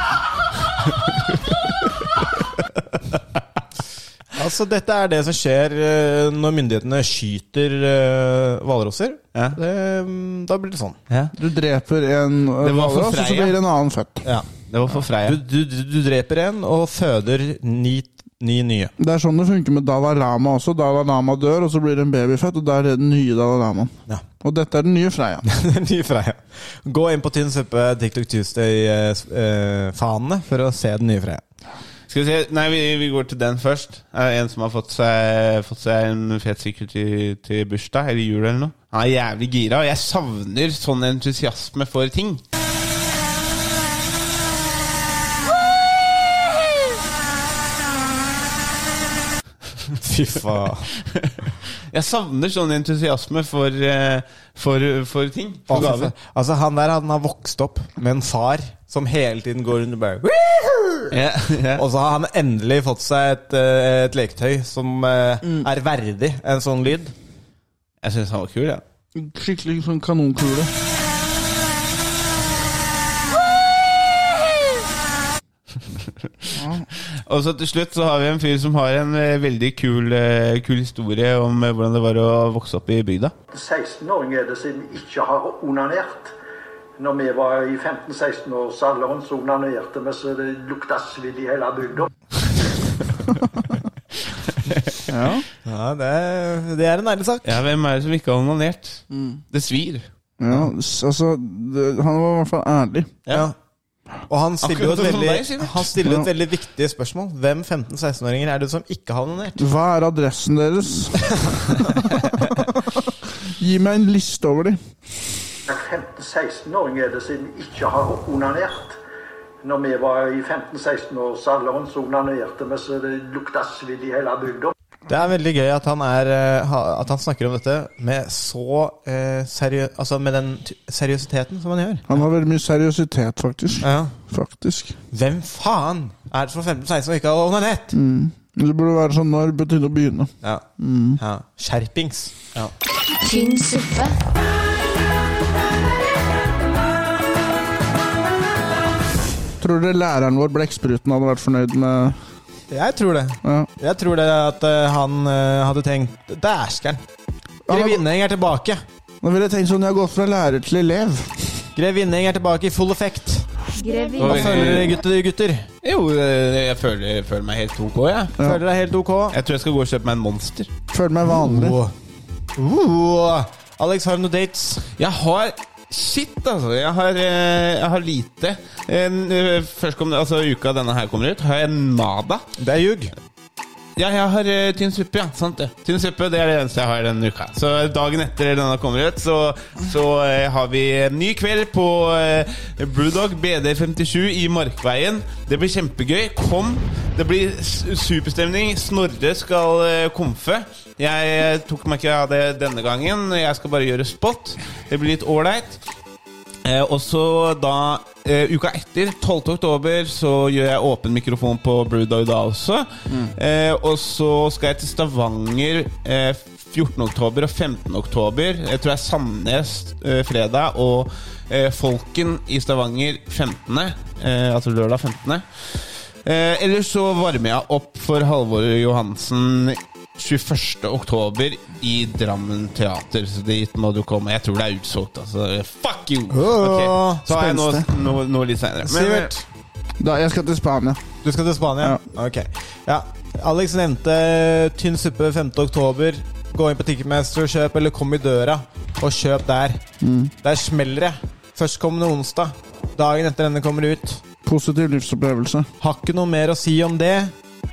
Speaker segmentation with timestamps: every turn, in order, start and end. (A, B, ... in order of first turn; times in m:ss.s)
0:04.3-0:11.0 A
0:11.4-0:14.2 B
0:12.6-0:13.6 C
0:14.7-0:15.4 C
0:15.2-0:18.9 A
0:19.0-0:25.5 B
0:25.4-0:31.4 A
0:32.1-0:42.4 C
0:50.0-0:50.9 A
0:51.9-0:56.1 C
0:55.7-1:01.2 A
1:01.1-1:01.8 C
1:01.7-1:07.1 A
1:08.0-1:08.8 C
1:09.1-1:10.7 B
1:16.6-1:16.8 B
1:17.1-1:23.3 C
1:23.5-1:26.3 D
1:27.0-1:32.1 D
1:34.4-1:35.0 C
1:35.1-1:35.4 B
1:35.6-1:37.6 A
1:37.4-1:40.1 C
1:39.1-1:39.4 B
1:40.4-1:43.1 B
1:43.3-1:43.5 A
1:44.3-1:49.6 A
1:44.6-1:45.9 C
1:49.6-1:53.0 B
1:53.6-1:54.8 B
1:55.7-1:59.0 D
1:59.6-2:04.7 D
2:05.1-2:12.1 A
2:12.1-2:15.0 B
2:13.8-2:14.1 A
2:15.1-2:17.9 A
2:17.9-2:21.2 B
2:20.4-2:22.7 A
2:23.2-2:24.2 E
2:29.6-2:32.2 B
2:32.7-2:37.0 A
2:37.7-2:38.0 B
2:37.7-2:38.8 A
2:39.2-2:41.6 B
2:41.7-2:43.5 A
2:43.7-2:44.8 E
2:44.2-2:44.9 C
2:44.2-2:45.7 A
2:45.8-2:48.3 C
2:48.4-2:49.4 A
2:49.3-2:50.7 C
2:50.9-2:51.8 B
2:51.4-2:51.9 A
2:52.6-2:54.9 A
2:55.0-3:02.4 C
3:02.6-3:03.1 A
3:04.0-3:25.8 C
3:26.6-3:59.3 C
3:56.3-3:57.3 A
3:57.3-3:57.8 B
3:58.8-3:59.4 A
4:00.0-4:01.0 B
4:01.2-4:09.8 A
4:10.0-4:10.3 B
4:10.4-4:14.2 A
4:14.4-4:15.7 B
4:15.8-4:17.3 A